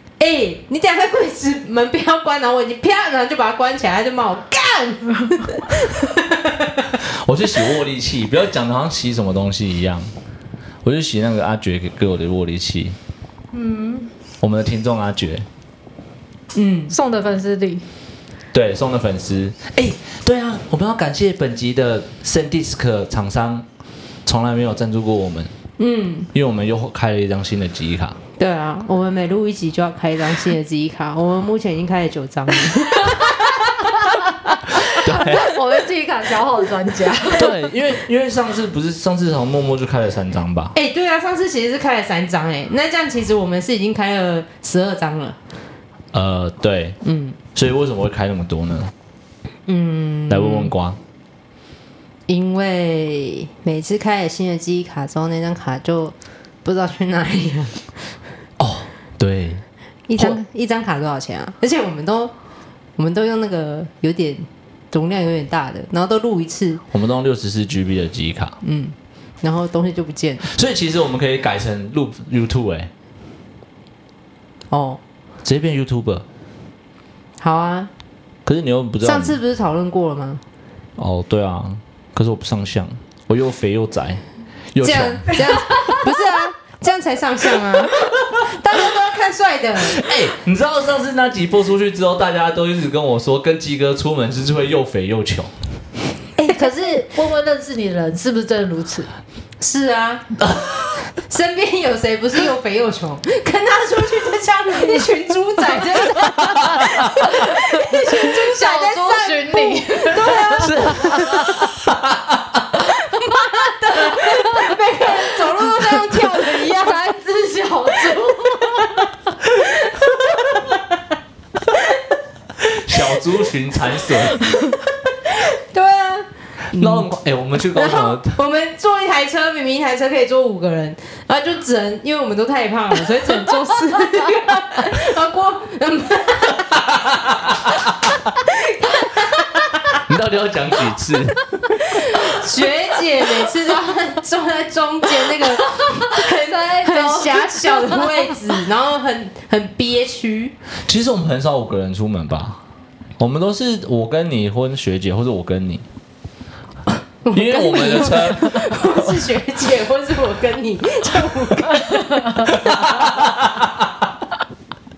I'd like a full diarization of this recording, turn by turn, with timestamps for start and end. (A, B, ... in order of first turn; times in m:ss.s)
0:00.2-0:06.9 A
0:07.0-0:10.1 B
0:10.8-0:13.0 B
0:13.5-0:14.1 C
0:14.4-0:15.4 B
0:16.5-0:16.9 A
0:16.9-0:17.9 C
0:18.5-0:23.6 B
0:24.2-0:25.5 B
0:25.8-0:26.3 A
0:26.3-0:28.2 B
0:28.4-0:33.8 A
0:32.7-0:37.7 C
0:34.8-0:35.6 B
0:37.2-0:40.8 B
0:40.7-0:45.4 A
0:46.1-0:47.0 B
0:47.0-0:47.4 A
0:47.6-0:48.9 B
0:49.7-0:50.7 A
0:50.3-0:51.0 B
0:52.3-0:58.0 A
0:58.6-0:59.6 B
1:00.1-1:02.3 A
1:03.0-1:06.8 A
1:06.9-1:08.6 B
1:08.6-1:10.5 A
1:10.5-1:12.9 B
1:14.7-1:15.0 A
1:15.4-1:16.2 B
1:17.4-1:17.9 A
1:18.4-1:19.4 B
1:19.0-1:20.4 A
1:21.0-1:24.2 B
1:24.7-1:25.4 B
1:24.8-1:30.0 A
1:25.4-1:26.1 C
1:28.0-1:28.3 B
1:29.8-1:35.5 B
1:36.4-1:39.1 C
1:39.6-1:40.3 A
1:40.4-1:41.0 B
1:41.1-1:51.6 A
1:46.6-1:47.1 B
1:47.3-1:51.5 C
1:50.6-1:52.6 B
1:52.9-1:57.0 A
1:54.0-1:54.8 C
1:55.6-1:59.0 C
1:59.6-2:00.7 A
2:02.6-2:04.6 B
2:04.4-2:07.1 A
2:06.7-2:08.4 B
2:07.6-2:16.8 A
2:16.7-2:18.2 B
2:18.4-2:20.0 A
2:20.0-2:21.4 B
2:21.8-2:30.5 A
2:25.6-2:28.4 C
2:30.9-2:32.6 B
2:33.2-2:35.9 B
2:37.2-2:43.1 A
2:37.3-2:39.2 B
2:42.4-2:43.9 B